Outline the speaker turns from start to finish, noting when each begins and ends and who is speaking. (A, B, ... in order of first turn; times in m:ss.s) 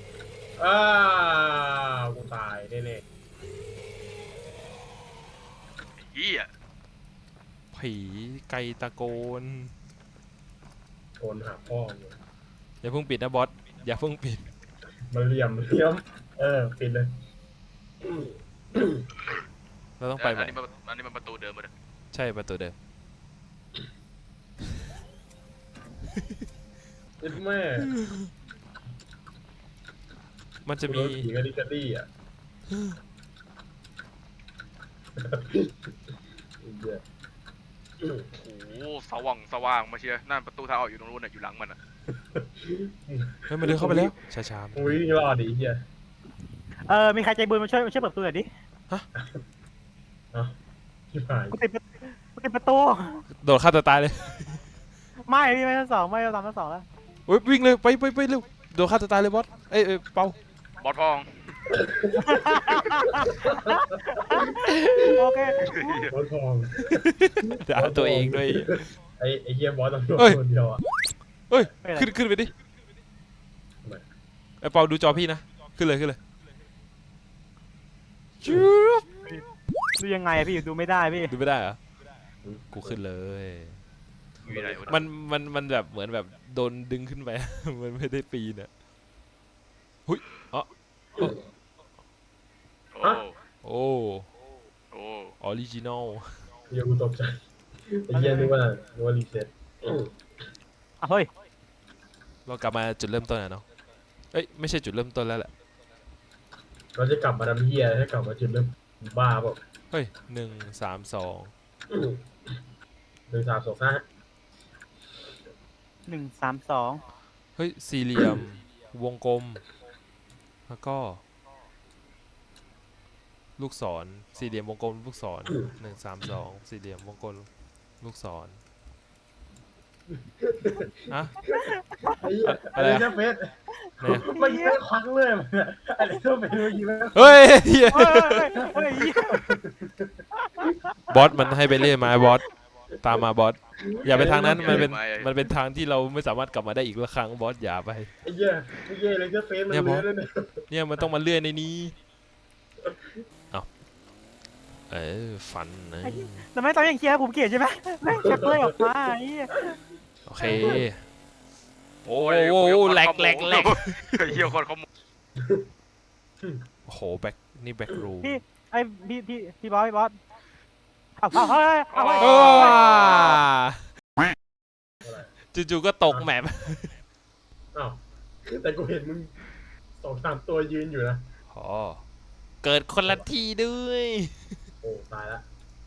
0:00.6-0:03.0 A
0:06.0-0:06.5 B
0:07.7-0:09.7 C
0:11.2-0:12.2 A
0:12.8-0:14.5 C
0:15.1-0:17.1 A
0:18.0-0:19.0 A
0:20.0-0:20.6 C
0:20.2-0:21.7 B
0:22.1-0:22.8 C
0:27.2-0:27.9 A
0:27.9-0:28.3 C
0:30.6-0:31.3 C
0:30.8-0:32.1 A
0:35.2-0:35.8 A
0:36.6-0:37.0 A
0:38.0-0:38.2 A
0:38.3-0:41.8 B
0:42.3-0:44.1 A
0:43.5-0:44.9 C
0:44.7-0:45.8 A
0:46.8-0:48.5 D
0:51.1-0:51.6 A
0:51.5-0:53.2 D
0:53.3-0:54.6 C
0:55.2-0:56.8 D
0:57.3-1:00.4 C
1:00.8-1:01.6 B
1:01.7-1:02.6 A
1:02.3-1:04.5 D
1:03.5-1:03.8 A
1:04.3-1:05.0 A
1:04.6-1:05.2 C
1:05.1-1:06.0 D
1:05.6-1:06.1 B
1:06.1-1:07.0 A
1:06.8-1:08.9 C
1:07.7-1:10.8 A
1:11.1-1:12.5 C
1:11.8-1:12.1 D
1:14.6-1:16.2 C
1:18.4-1:19.1 C
1:20.0-1:21.4 D
1:21.2-1:21.8 C
1:22.4-1:23.0 A
1:22.7-1:23.8 C
1:24.4-1:25.0 B
1:24.4-1:25.0 A
1:24.8-1:28.7 C
1:30.1-1:31.4 C
1:32.9-1:33.4 B
1:33.6-1:34.3 C
1:34.9-1:35.3 B
1:35.4-1:36.4 C
1:36.7-1:40.1 A
1:38.1-1:38.5 D
1:41.0-1:41.3 D
1:42.4-1:43.6 C
1:44.3-1:45.5 C
1:47.0-1:49.6 A
1:49.9-1:51.5 C
1:51.9-1:52.2 A
1:53.3-1:54.0 A
1:56.1-1:57.0 D
1:57.6-1:59.6 C
2:00.7-2:01.2 C
2:03.6-2:07.5 C
2:08.0-2:08.6 C
2:10.2-2:11.6 A
2:11.1-2:11.4 C
2:11.7-2:12.1 D
2:12.2-2:17.4 A
2:12.4-2:13.1 C
2:14.0-2:14.3 C
2:14.2-2:14.8 D
2:17.1-2:18.5 C
2:17.9-2:19.4 D
2:18.6-2:20.2 A
2:20.4-2:20.7 D
2:21.1-2:22.4 C
2:23.0-2:28.1 C
2:23.8-2:24.9 A
2:24.2-2:25.5 B
2:28.2-2:31.1 A
2:29.7-2:30.1 C
2:30.7-2:32.0 C
2:34.9-2:36.5 C
2:36.0-2:39.8 D
2:40.3-2:41.0 C
2:40.4-2:40.8 A
2:42.0-2:44.2 C
2:42.0-2:44.8 B
2:45.4-2:45.6 A
2:46.9-2:48.4 C
2:48.2-2:50.2 D
2:51.2-2:52.8 D
2:51.9-2:53.4 B
2:52.2-2:53.9 C
2:55.0-2:55.3 A
2:55.5-2:57.0 C
2:57.7-2:59.3 A
3:00.0-3:01.2 A
3:01.5-3:02.0 C
3:02.6-3:04.6 C
3:04.8-3:05.4 A